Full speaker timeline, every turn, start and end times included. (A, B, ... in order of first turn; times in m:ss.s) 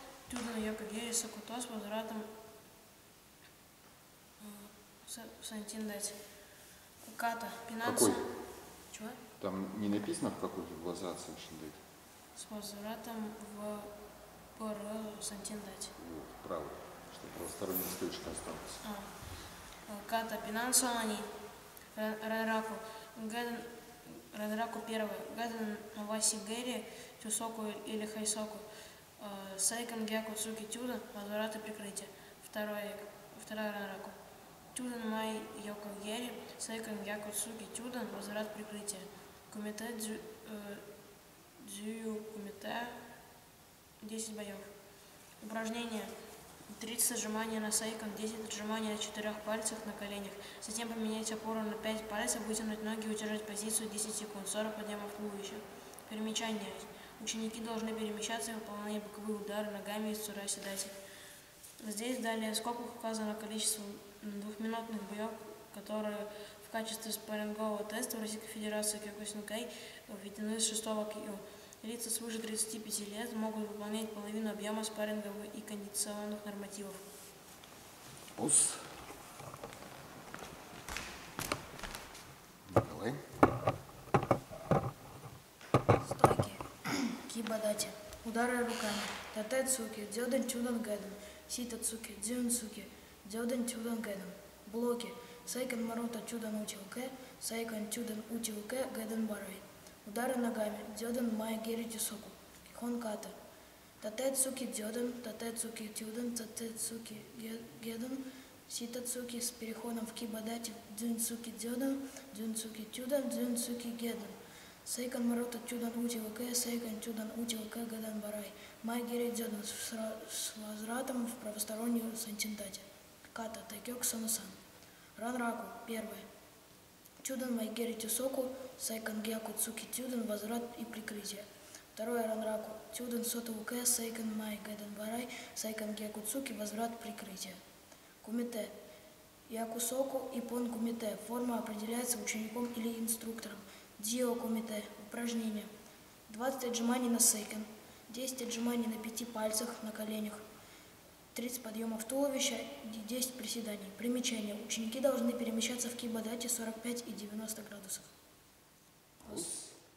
0:00.3-0:02.3 A
0:04.4-0:06.2 A
0:07.0-0:08.3 A
0:07.8-0:08.2 B
0:08.9-0:09.2 A
0:09.4-0:11.8 B
0:12.3-0:13.9 A
0:14.5-0:15.9 A
0:16.0-0:18.8 B
0:18.8-0:19.2 A
0:19.8-0:21.3 A
0:21.9-0:34.2 A
0:34.7-0:40.8 A
0:41.6-0:43.0 A
0:44.0-0:44.7 A
0:45.4-0:46.1 A
0:46.7-1:01.0 A
1:01.8-1:17.0 A
1:18.4-1:18.8 B
1:22.7-1:23.2 B
1:26.0-1:43.3 C
1:44.0-1:54.3 C
1:54.8-2:04.6 C
2:05.2-2:06.2 C
2:07.2-2:17.6 C
2:18.2-2:18.7 C
2:19.5-2:25.7 C
2:26.3-2:30.4 C
2:31.3-2:38.1 C
2:39.2-2:39.7 B
2:39.2-2:39.6 C